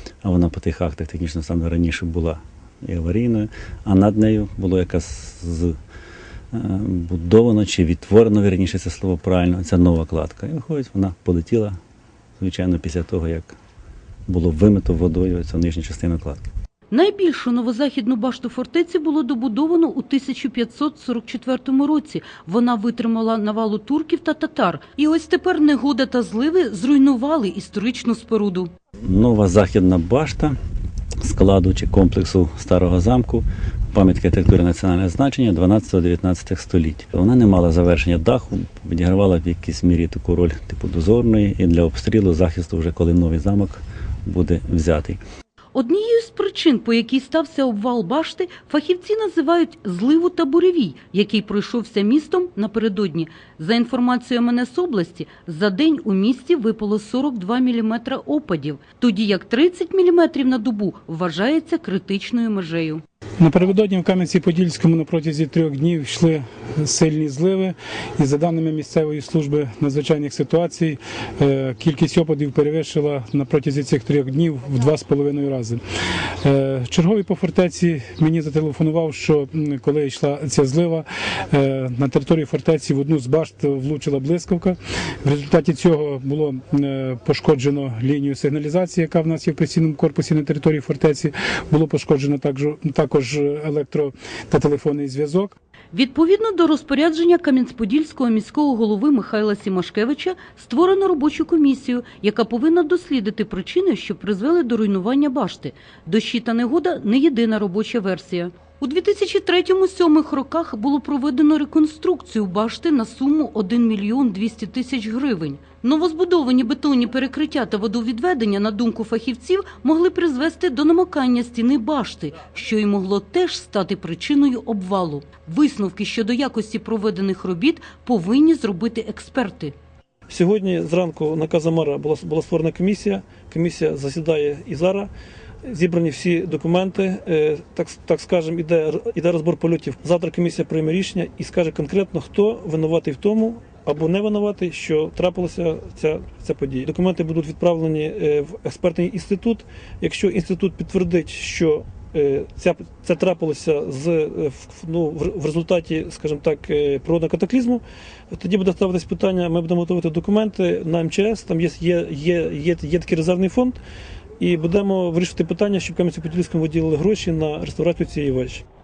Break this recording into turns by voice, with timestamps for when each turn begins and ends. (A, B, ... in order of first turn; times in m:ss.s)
0:00.2-0:05.8 A
0:06.5-0:11.8 A
0:12.4-0:13.6 A
0:14.3-0:16.4 A
0:16.9-0:28.7 B
0:29.0-0:30.6 A
0:31.2-0:45.2 A
0:45.7-1:03.0 B
1:03.4-1:15.8 C
1:16.4-1:35.6 C
1:35.9-2:09.7 B
2:10.3-2:15.1 D
2:15.6-2:43.8 D
2:44.4-2:48.6 D